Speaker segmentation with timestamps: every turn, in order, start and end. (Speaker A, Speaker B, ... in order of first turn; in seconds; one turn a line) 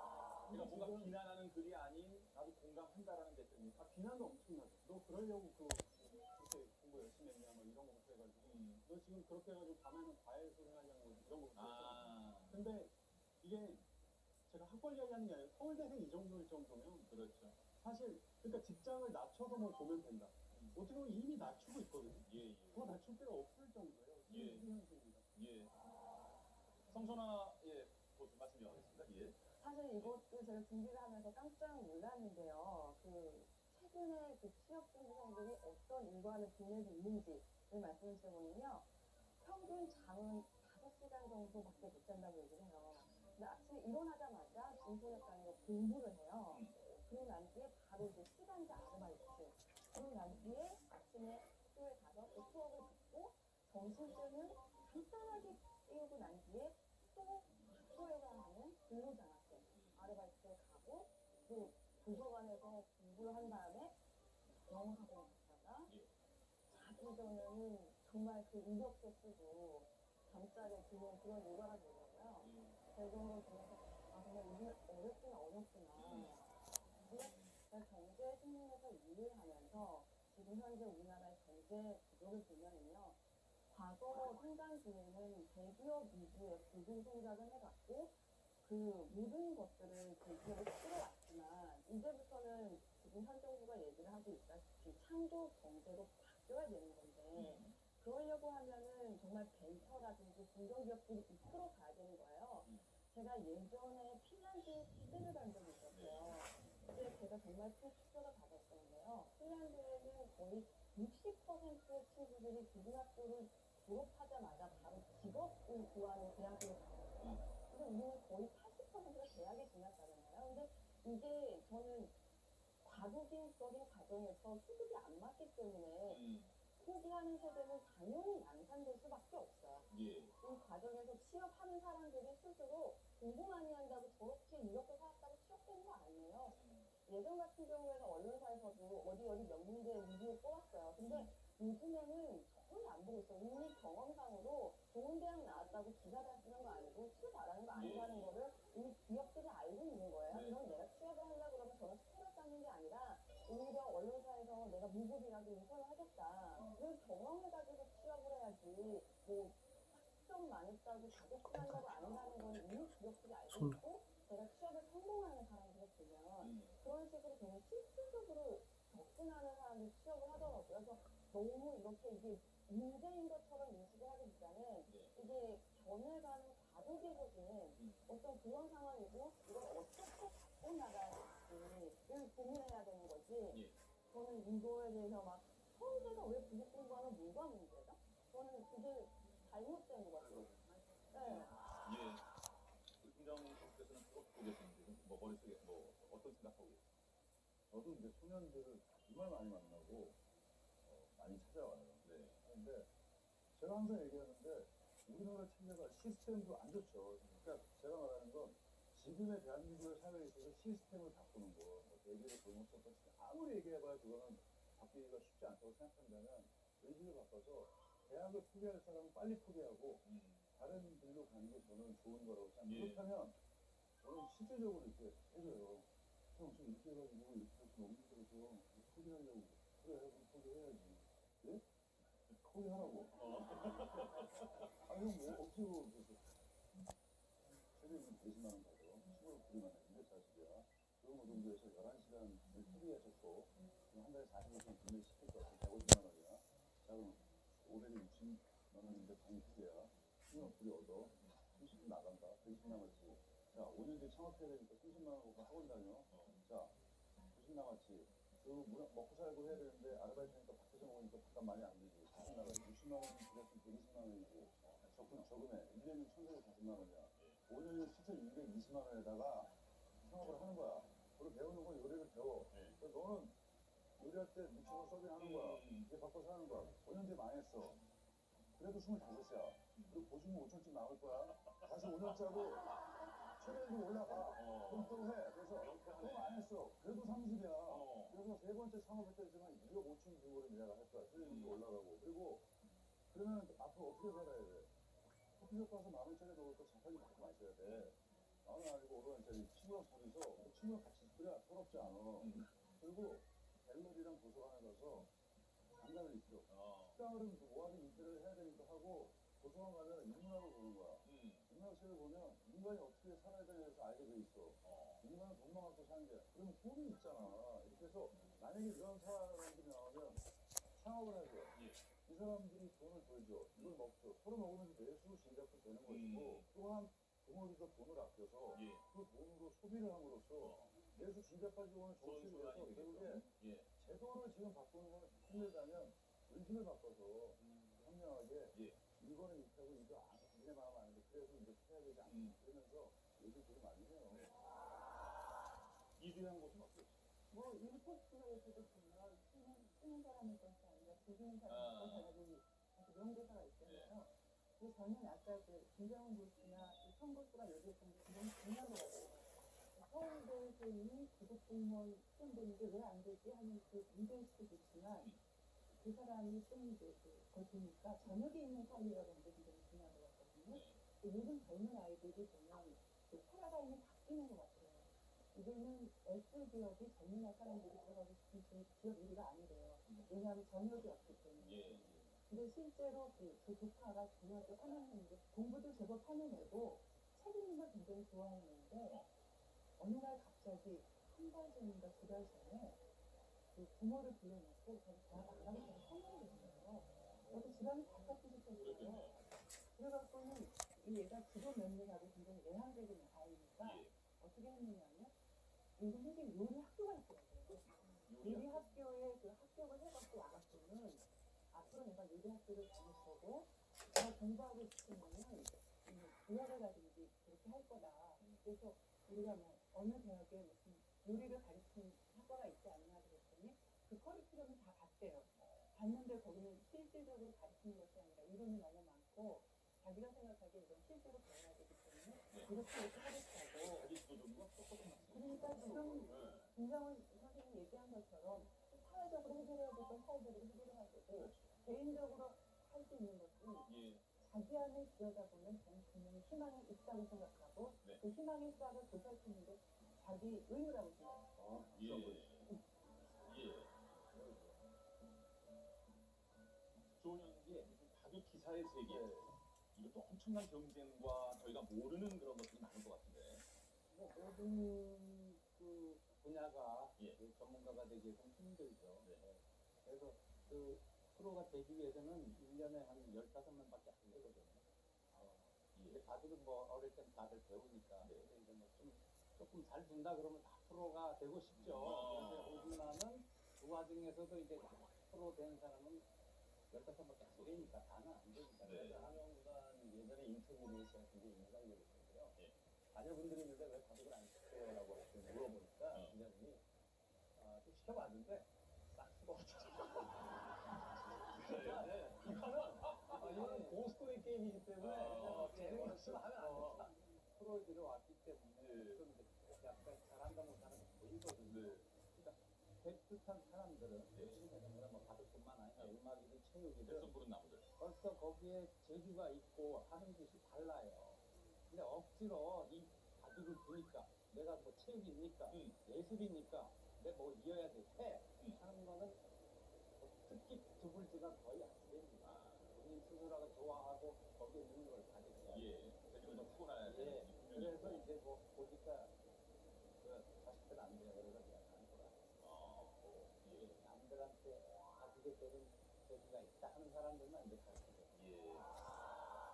Speaker A: 0.5-1.2
Speaker B: 0.5-3.9
Speaker A: 3.8-13.8
Speaker B: 8.4-8.8
Speaker B: 11.5-12.8
Speaker A: 14.5-17.1
Speaker B: 17.1-17.6
Speaker A: 17.8-25.2
Speaker B: 20.5-20.8
Speaker B: 22.2-23.0
Speaker B: 24.3-24.7
Speaker B: 25.3-25.7
Speaker B: 26.9-29.4
Speaker C: 29.6-65.9
Speaker B: 46.5-46.8
Speaker B: 59.7-60.2
Speaker B: 65.9-66.1
Speaker C: 66.7-122.2
Speaker B: 72.4-72.8
Speaker B: 75.9-77.6
Speaker B: 97.3-97.7
Speaker B: 105.9-107.1
Speaker B: 117.2-117.5
Speaker C: 122.8-126.2
Speaker B: 126.0-126.5
Speaker C: 126.7-191.6
Speaker B: 129.9-130.4
Speaker B: 136.5-136.9
Speaker B: 141.0-141.3
Speaker B: 147.7-148.3
Speaker B: 150.3-150.8
Speaker B: 166.4-166.8
Speaker B: 174.8-175.1
Speaker B: 177.8-178.1
Speaker B: 183.5-183.8
Speaker B: 191.2-192.3
Speaker B: 193.0-196.9
Speaker D: 197.7-200.2
Speaker D: 200.8-202.9
Speaker B: 202.0-202.4
Speaker D: 203.5-223.4
Speaker B: 220.0-220.5
Speaker B: 222.7-223.1
Speaker D: 224.0-231.7
Speaker D: 232.4-234.0
Speaker B: 233.1-235.4
Speaker D: 234.8-236.3
Speaker D: 237.7-256.8
Speaker B: 256.1-256.4
Speaker D: 257.3-273.4
Speaker B: 264.6-265.3
Speaker B: 267.1-267.4
Speaker B: 272.5-272.8
Speaker D: 274.0-277.9
Speaker B: 275.1-275.9
Speaker D: 278.6-282.7
Speaker B: 279.7-280.1
Speaker B: 281.2-282.8
Speaker D: 283.4-292.5
Speaker B: 283.4-286.6
Speaker B: 287.6-288.2
Speaker B: 291.1-291.6
Speaker D: 293.1-294.7
Speaker D: 295.4-305.1
Speaker B: 297.6-297.9
Speaker B: 302.1-302.5
Speaker D: 305.8-320.2
Speaker B: 306.5-307.0
Speaker B: 311.0-311.5
Speaker B: 314.6-315.1
Speaker B: 318.1-318.4
Speaker D: 320.7-344.3
Speaker B: 321.5-321.8
Speaker B: 325.8-326.5
Speaker B: 328.5-328.8
Speaker B: 330.4-330.8
Speaker B: 332.0-333.7
Speaker B: 337.4-337.9
Speaker B: 338.5-338.8
Speaker B: 342.0-342.4
Speaker B: 346.0-347.1
Speaker E: 347.3-365.1
Speaker B: 351.5-352.1
Speaker B: 353.6-353.9
Speaker E: 365.7-389.0
Speaker B: 370.5-370.8
Speaker B: 379.9-380.1
Speaker B: 380.8-382.2
Speaker B: 388.8-389.1
Speaker E: 389.8-392.8
Speaker E: 393.5-405.1
Speaker B: 398.6-399.2
Speaker B: 403.6-403.9
Speaker E: 405.8-433.9
Speaker B: 407.5-408.8
Speaker B: 418.2-418.5
Speaker B: 425.4-425.8
Speaker B: 432.3-432.7
Speaker B: 433.4-436.5
Speaker E: 435.1-451.4
Speaker B: 441.1-441.6
Speaker B: 443.6-444.0
Speaker D: 451.4-452.3
Speaker B: 451.7-452.5
Speaker B: 453.2-453.7
Speaker F: 454.1-454.6
Speaker B: 456.9-459.2
Speaker D: 458.9-459.1
Speaker B: 459.7-463.4
Speaker F: 463.9-486.1
Speaker B: 475.7-476.1
Speaker B: 478.0-478.3
Speaker B: 481.5-482.8
Speaker F: 486.7-492.4
Speaker B: 487.2-487.7
Speaker B: 488.6-489.1
Speaker F: 492.9-496.6
Speaker B: 495.9-496.2
Speaker F: 497.3-500.5
Speaker F: 501.0-517.1
Speaker B: 501.1-503.3
Speaker A: 502.2-502.7
Speaker A: 503.2-506.3
Speaker B: 504.8-506.8
Speaker B: 508.6-509.0
Speaker B: 511.4-511.8
Speaker B: 514.1-514.4
Speaker B: 516.8-517.7
Speaker F: 517.8-529.2
Speaker B: 525.5-525.8
Speaker F: 530.0-539.2
Speaker B: 532.2-532.7
Speaker B: 535.4-538.1
Speaker F: 540.0-542.2
Speaker B: 542.4-543.8
Speaker F: 543.5-548.2
Speaker B: 548.1-548.7